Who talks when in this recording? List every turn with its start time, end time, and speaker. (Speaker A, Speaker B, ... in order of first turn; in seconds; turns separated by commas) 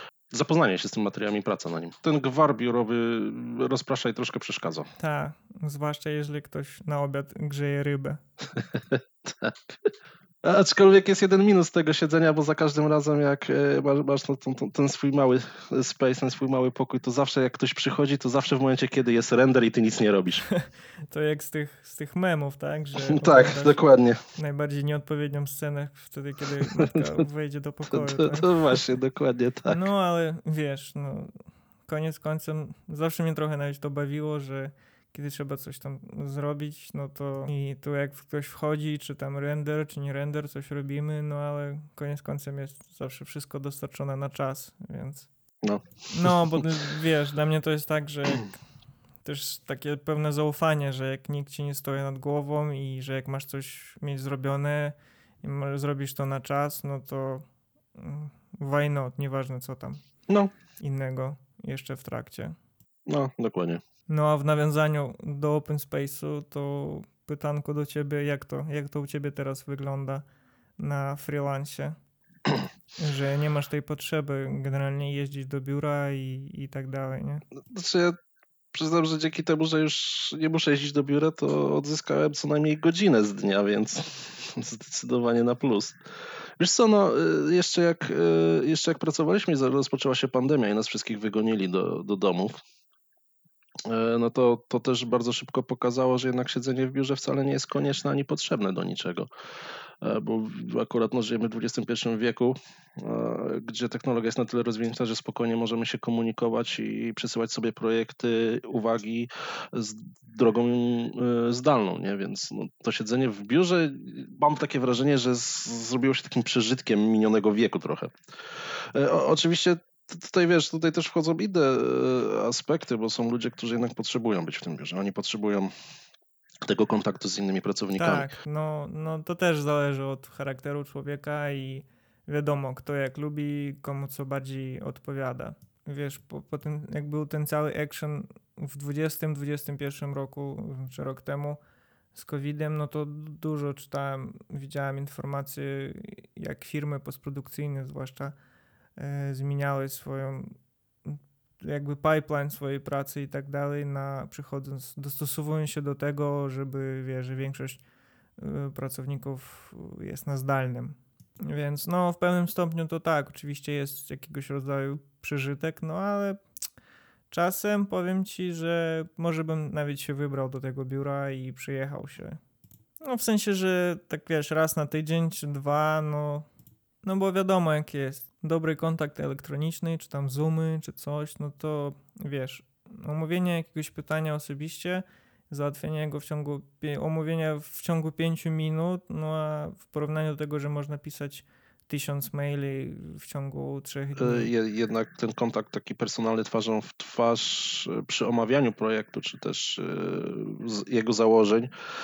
Speaker A: 0.3-4.9, Speaker B: 5.0-8.2, Speaker A: 8.6-20.4, Speaker B: 20.5-23.8, Speaker A: 23.0-24.2, Speaker B: 24.4-28.8, Speaker A: 26.6-27.2, Speaker A: 27.9-29.8, Speaker B: 29.7-31.3, Speaker B: 31.9-45.3, Speaker A: 45.6-46.6, Speaker B: 46.1-48.6, Speaker B: 49.2-57.5, Speaker B: 58.0-60.1, Speaker B: 60.8-62.5, Speaker A: 63.1-63.8, Speaker B: 64.1-70.2, Speaker B: 70.8-72.0, Speaker B: 73.0-77.4, Speaker A: 77.7-78.2, Speaker A: 78.7-86.0, Speaker A: 86.6-92.6, Speaker A: 93.8-99.3, Speaker A: 100.0-118.1, Speaker A: 118.8-125.7, Speaker A: 126.6-128.3, Speaker B: 128.0-141.6, Speaker B: 142.1-148.3, Speaker B: 149.0-150.5, Speaker B: 151.1-157.8, Speaker B: 158.4-166.4, Speaker B: 167.3-172.4, Speaker B: 173.0-176.5, Speaker B: 177.0-194.5, Speaker A: 194.2-201.7